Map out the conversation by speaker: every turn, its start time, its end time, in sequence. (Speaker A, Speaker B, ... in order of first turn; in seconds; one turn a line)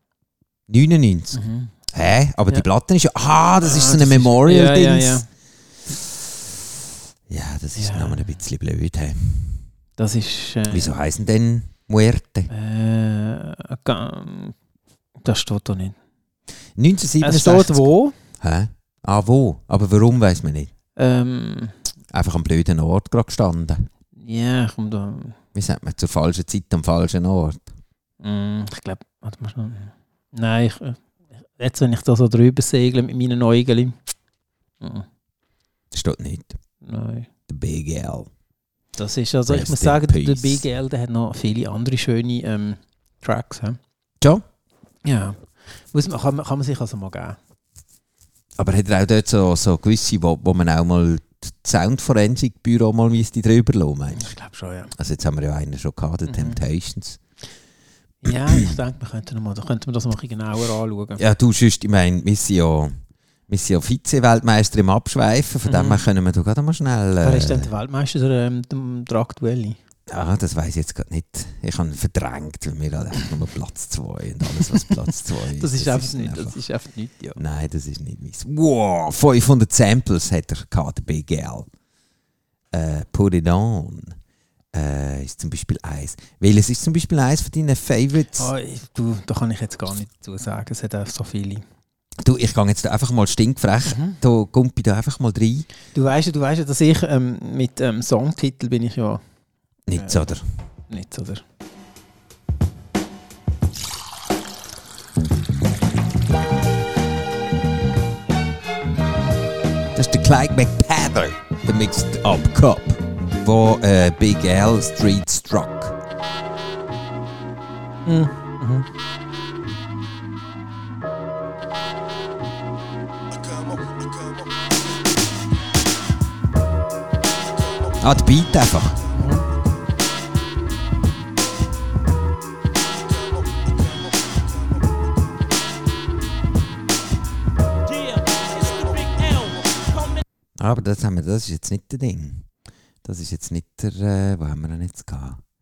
Speaker A: 0.7-1.4
Speaker B: 1.3-1.7
Speaker A: 1.9-5.2
Speaker B: 3.6-5.2
Speaker A: 7.3-9.6
Speaker B: 7.8-8.3
Speaker B: 10.0-10.9
Speaker A: 10.7-12.5
Speaker B: 12.5-14.6
Speaker B: 15.2-16.0
Speaker A: 16.8-20.7
Speaker B: 17.2-18.1
Speaker B: 20.9-21.8
Speaker A: 22.1-23.9
Speaker B: 24.2-25.4
Speaker A: 25.5-27.7
Speaker B: 28.2-31.0
Speaker B: 31.6-34.0
Speaker B: 34.8-35.0
Speaker A: 35.9-36.6
Speaker B: 36.8-37.3
Speaker A: 37.5-38.3
Speaker B: 39.0-43.8
Speaker A: 39.5-40.6
Speaker B: 45.0-47.4
Speaker A: 48.6-54.3
Speaker B: 54.1-54.9
Speaker A: 55.0-57.2
Speaker B: 56.3-56.6
Speaker B: 58.2-61.2
Speaker A: 58.3-58.7
Speaker A: 61.2-63.0
Speaker A: 63.5-67.7
Speaker B: 65.7-66.0
Speaker B: 67.2-69.8
Speaker A: 70.1-76.6
Speaker B: 75.5-77.4
Speaker A: 77.4-81.7
Speaker A: 82.7-84.2
Speaker A: 84.7-88.5
Speaker B: 88.3-91.6
Speaker A: 92.2-95.7
Speaker B: 93.8-94.2
Speaker B: 95.9-99.2
Speaker A: 99.9-100.4
Speaker B: 99.9-100.2
Speaker B: 100.9-101.4
Speaker A: 109.9-116.0
Speaker B: 118.0-118.9
Speaker A: 128.0-129.0
Speaker B: 129.1-129.4
Speaker C: 137.9-140.2
Speaker A: 140.6-142.5
Speaker A: 143.0-145.4